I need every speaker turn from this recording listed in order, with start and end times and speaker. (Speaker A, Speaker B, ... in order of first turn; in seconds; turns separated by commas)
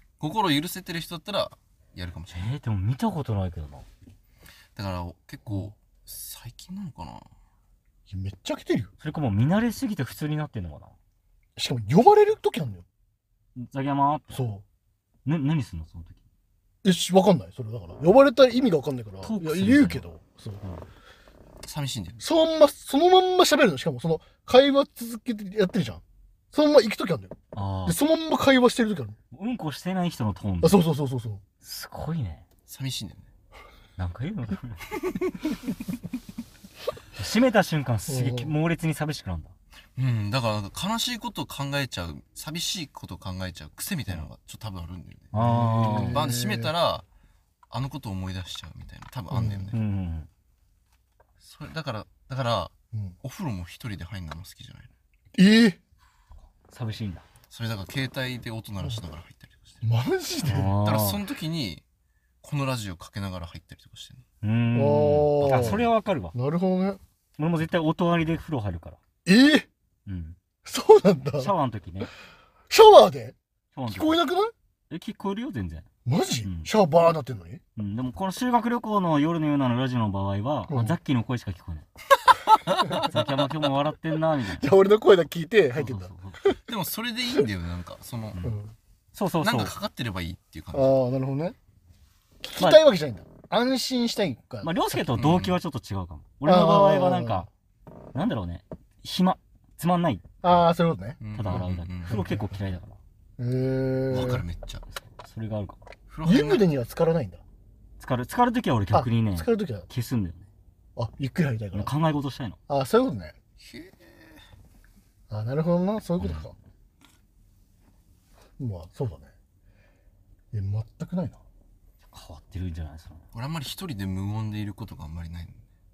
Speaker A: 0.2-2.6, Speaker B: 2.3-3.9, Speaker A: 4.8-7.3, Speaker C: 8.1-8.9, Speaker B: 9.0-10.9, Speaker C: 11.6-12.8, Speaker B: 13.6-14.5, Speaker C: 14.3-14.6, Speaker B: 15.2-16.2, Speaker C: 16.8-20.6, Speaker B: 19.2-20.0, Speaker A: 21.6-22.2, Speaker C: 22.2-27.4, Speaker B: 27.5-28.0, Speaker C: 27.9-29.2, Speaker B: 29.3-30.9, Speaker C: 30.6-31.4, Speaker B: 31.6-32.4, Speaker A: 32.7-33.3, Speaker B: 34.0-34.9, Speaker B: 37.2-39.5, Speaker C: 38.1-38.5, Speaker A: 40.0-45.3, Speaker B: 45.3-46.2, Speaker C: 45.3-46.7, Speaker A: 45.9-47.1, Speaker A: 47.7-49.8, Speaker C: 49.3-49.8, Speaker B: 49.7-50.3, Speaker A: 51.4-54.9, Speaker C: 55.3-55.8, Speaker B: 56.7-57.2, Speaker A: 57.5-59.8, Speaker C: 59.8-60.7, Speaker B: 60.5-61.2, Speaker A: 60.7-61.8, Speaker A: 62.4-64.2, Speaker B: 64.4-66.3, Speaker C: 64.7-67.0, Speaker A: 65.5-65.8, Speaker B: 67.4-69.0, Speaker C: 69.3-69.7, Speaker B: 70.1-70.4, Speaker C: 70.7-71.5, Speaker B: 71.4-72.1, Speaker C: 72.7-73.4, Speaker B: 73.7-74.2, Speaker C: 73.9-74.5, Speaker B: 74.9-75.9, Speaker C: 76.1-77.6, Speaker B: 76.5-76.7, Speaker B: 77.8-81.9, Speaker C: 80.7-81.0, Speaker A: 82.7-83.1, Speaker C: 82.8-83.1, Speaker B: 83.0-84.7, Speaker C: 84.5-86.6, Speaker B: 85.8-86.4, Speaker A: 86.7-88.4, Speaker C: 88.4-88.7, Speaker B: 89.1-89.8, Speaker A: 89.4-91.0, Speaker C: 90.7-91.6, Speaker C: 92.4-95.1, Speaker B: 94.6-97.5, Speaker A: 95.1-95.6, Speaker C: 96.5-97.5, Speaker B: 98.1-100.5, Speaker C: 100.4-101.2, Speaker A: 101.2-102.2, Speaker B: 101.3-103.0, Speaker C: 102.1-102.5, Speaker C: 103.4-104.4, Speaker A: 104.1-104.8, Speaker B: 105.0-105.8, Speaker A: 106.1-106.7, Speaker C: 106.2-107.4, Speaker B: 108.0-110.5, Speaker C: 108.9-109.9, Speaker C: 111.0-111.9, Speaker B: 111.7-112.6, Speaker C: 112.7-113.4, Speaker A: 113.6-114.4, Speaker C: 115.3-116.5, Speaker B: 116.2-116.5, Speaker C: 118.6-119.3, Speaker C: 120.5-121.4, Speaker B: 122.1-123.2, Speaker A: 123.3-125.6